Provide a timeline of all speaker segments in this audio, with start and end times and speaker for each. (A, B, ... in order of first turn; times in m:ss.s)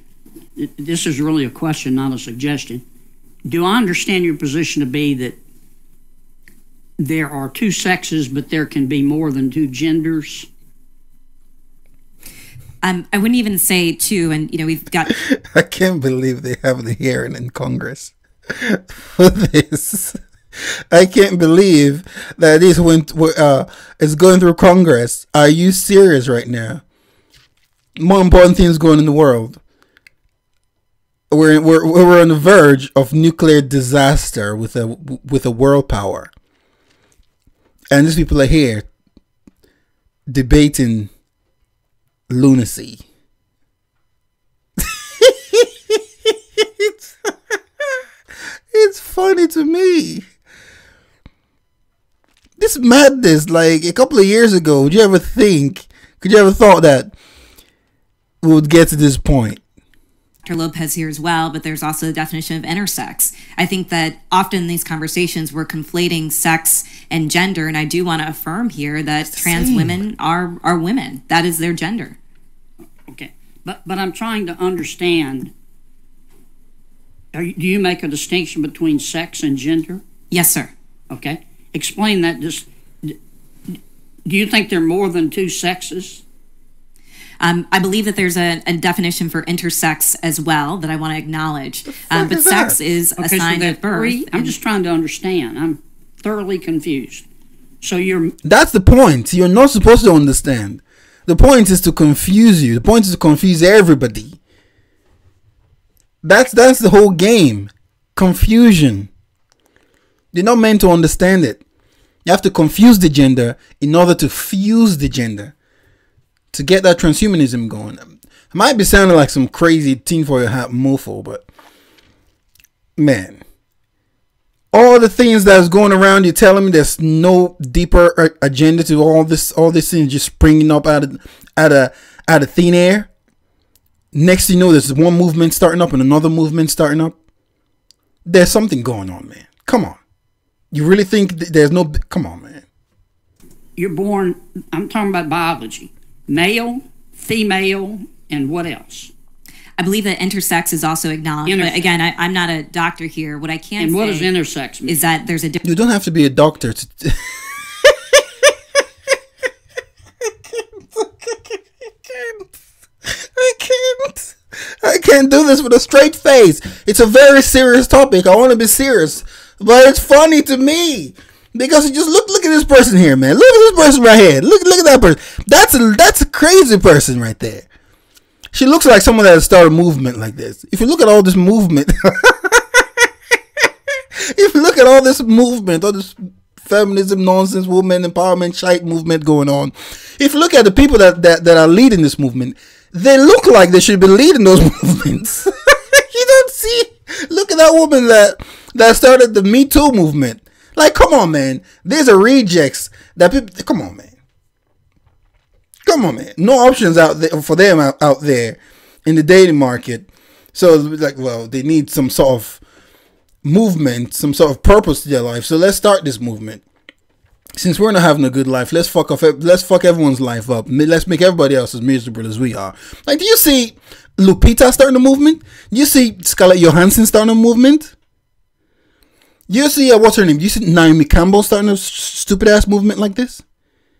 0:00.6-0:02.8 A
0:03.5-0:05.4 A
0:07.0-0:10.5 A
0:12.8-0:15.1 B
0:15.1-0:20.2 C
0:20.9-0:26.8 C
0:28.0-0:29.6 C
0:31.3-0:36.3 C
0:37.9-0:38.9 C
0:40.3-0:41.1 C
0:42.3-0:43.0 C
0:44.8-0:47.3 C
0:48.7-0:50.2 C
0:52.6-0:57.1 C
0:58.4-0:59.6 C
1:00.4-1:12.2 B
1:09.3-1:10.0 C
1:13.1-1:15.5 A
1:17.3-1:20.0 A
1:20.3-1:20.7 B
1:21.1-1:23.2 A
1:24.2-1:26.2 A
1:27.4-1:34.5 B
1:32.0-1:32.8 C
1:33.2-1:37.2 A
1:37.8-1:38.3 A
1:38.4-1:44.4 C
1:46.2-1:49.1 C
1:50.3-1:51.6 C
1:52.2-1:55.5 C
1:56.5-2:01.4 C
2:03.0-2:03.4 C
2:04.7-2:13.1 C
2:14.1-2:17.1 C
2:18.2-2:20.0 C
2:20.7-2:22.6 C
2:23.8-2:29.1 A
2:29.8-2:34.3 B
2:31.4-2:31.9 A
2:33.8-2:35.0 A
2:34.8-2:35.6 B
2:35.6-2:38.2 C
2:40.5-2:42.4 C
2:43.0-2:57.7 C
2:58.5-3:02.8 C
3:04.3-3:24.1 C
3:25.8-3:32.6 C
3:33.4-3:36.6 C
3:37.6-3:47.9 C
3:49.5-3:53.4 C